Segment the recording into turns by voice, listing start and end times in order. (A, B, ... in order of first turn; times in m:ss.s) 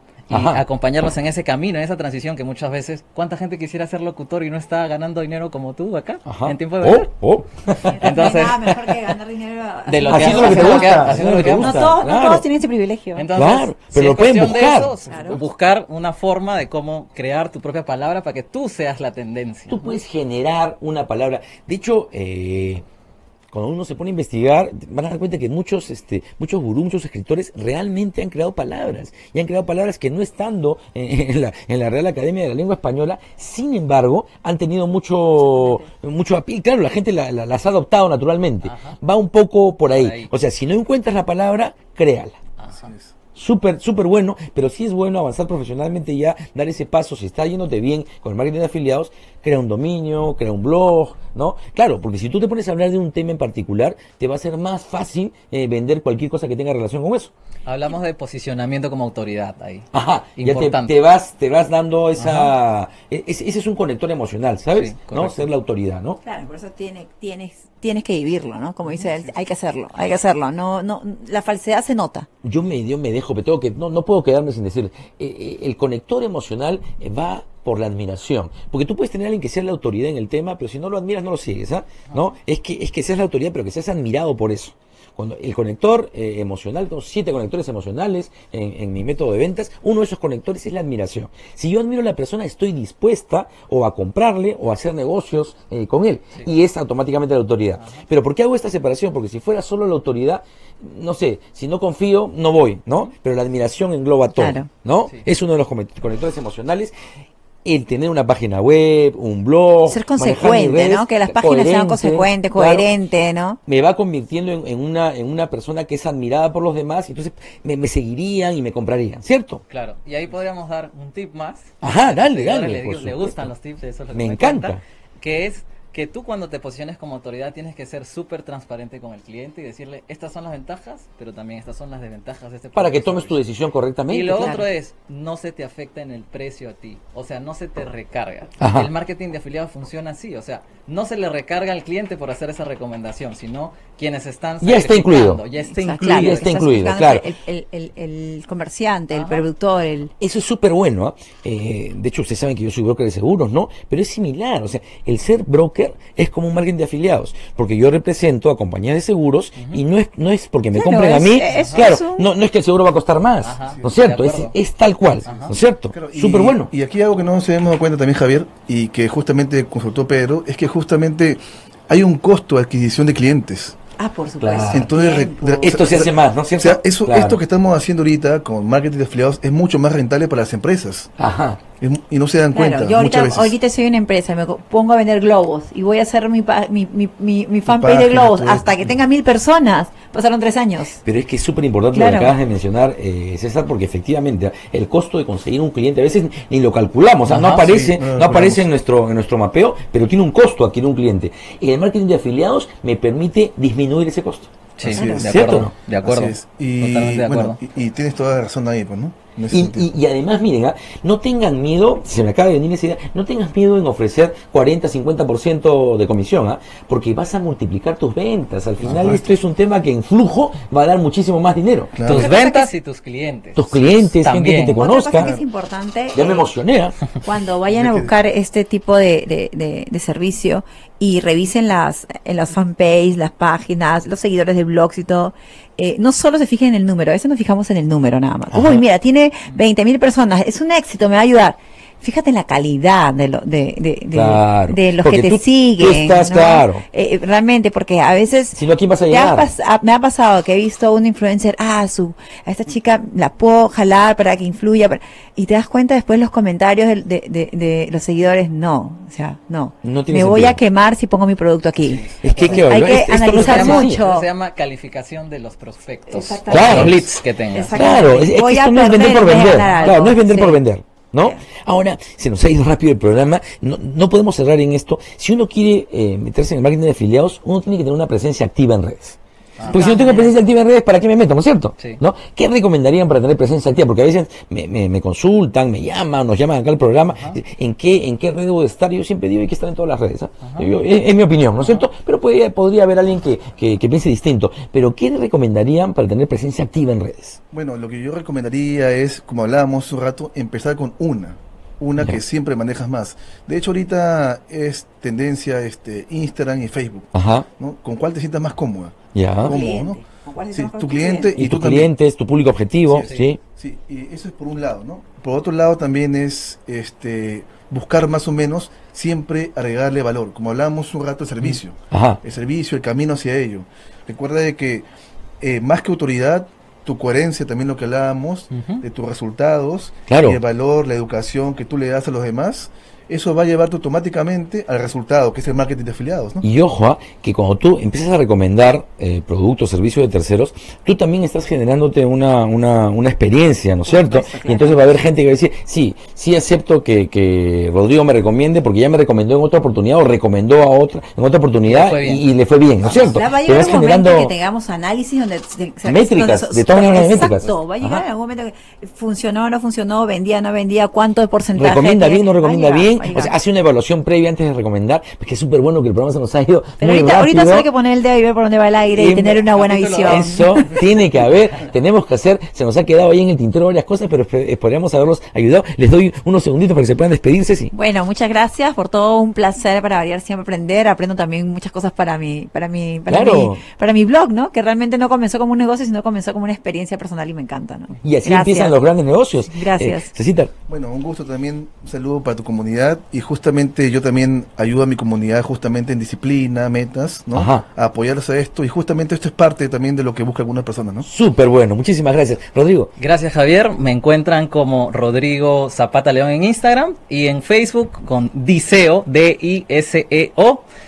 0:00.3-0:07.1 A
0:00.3-0:00.6 B
0:06.2-0:08.8 B
0:07.9-0:13.3 C
0:08.0-0:08.6 A
0:09.9-0:12.0 A
0:10.1-0:12.5 B
0:13.2-0:19.8 A
0:13.3-0:14.9 B
0:15.1-0:15.4 C
0:19.7-0:22.8 B
0:23.5-0:42.4 B
0:35.5-0:35.8 C
0:38.6-0:39.0 A
0:39.9-0:40.3 A
0:42.6-0:42.9 A
0:42.7-0:43.1 D
0:43.4-0:57.3 B
0:57.7-0:59.9 A
0:59.9-1:06.2 B
1:00.4-1:00.9 A
1:02.2-1:02.5 A
1:04.7-1:05.5 A
1:06.2-1:12.3 C
1:12.4-1:46.9 B
1:37.8-1:38.1 A
1:44.4-1:44.7 C
1:47.6-1:52.9 B
1:49.9-1:53.6 C
1:53.7-1:59.6 B
1:59.7-2:13.4 A
2:01.8-2:03.5 B
2:04.1-2:04.8 B
2:12.7-2:14.6 B
2:14.1-2:26.6 A
2:18.6-2:18.9 B
2:24.6-2:25.4 B
2:25.6-2:30.1 C
2:26.0-2:27.3 B
2:29.1-2:29.4 A
2:30.2-2:46.7 B
2:39.6-2:39.8 A
2:40.7-2:42.3 C
2:41.6-2:41.8 A
2:43.4-2:44.6 A
2:43.7-2:44.0 D
2:45.2-2:45.6 A
2:45.2-2:53.8 D
2:54.0-2:55.8 C
2:54.4-2:54.9 B
2:54.6-3:01.1 D
2:55.6-2:57.4 B
3:01.2-3:01.6 B
3:01.8-3:03.6 D
3:02.5-3:11.0 C
3:07.7-3:09.0 D
3:11.0-3:25.7 B
3:11.9-3:12.3 C
3:17.3-3:17.7 A
3:17.4-3:18.6 D
3:24.8-3:27.6 A
3:24.9-3:29.9 D
3:29.5-3:41.9 B
3:38.8-3:39.2 D
3:41.9-3:42.3 D
3:42.0-3:42.7 C
3:42.0-3:44.8 A
3:43.6-3:45.4 B
3:44.7-3:46.5 C
3:45.1-3:45.4 D
3:46.1-3:47.0 B
3:47.2-4:24.3 C
3:47.7-3:48.1 D
3:58.5-3:58.8 B
4:04.1-4:06.8 B
4:08.5-4:09.5 B
4:19.8-4:20.6 B
4:21.8-4:28.1 A
4:22.2-4:24.0 B
4:26.1-4:30.6 C
4:26.5-4:27.1 B
4:27.7-4:57.4 B
4:29.6-4:30.0 A
4:39.6-4:39.9 A
4:39.6-4:40.3 C
4:47.1-4:47.4 A
4:50.4-4:50.7 A
4:51.6-4:51.9 A
4:57.5-5:11.9 D
5:07.1-5:07.5 B
5:09.1-5:09.6 B
5:09.5-5:11.4 C
5:11.4-5:13.4 B
5:12.9-5:24.9 D
5:13.0-5:13.3 A
5:21.4-5:22.2 B
5:25.4-5:36.4 D
5:28.5-5:28.8 A
5:30.1-5:30.4 B
5:36.4-5:54.4 B
5:43.9-5:45.0 C
5:51.6-5:52.2 A
5:52.9-6:03.3 C
5:55.8-5:58.1 B
6:01.6-6:07.7 B
6:06.8-6:10.7 C
6:08.9-6:09.4 B
6:09.5-6:10.8 A
6:10.0-6:17.7 B
6:17.7-6:28.8 C
6:23.1-6:23.6 B
6:28.0-6:30.5 B
6:29.4-6:30.1 C
6:30.7-6:41.1 D
6:37.3-6:37.6 B
6:41.0-6:42.9 B
6:43.0-6:50.6 A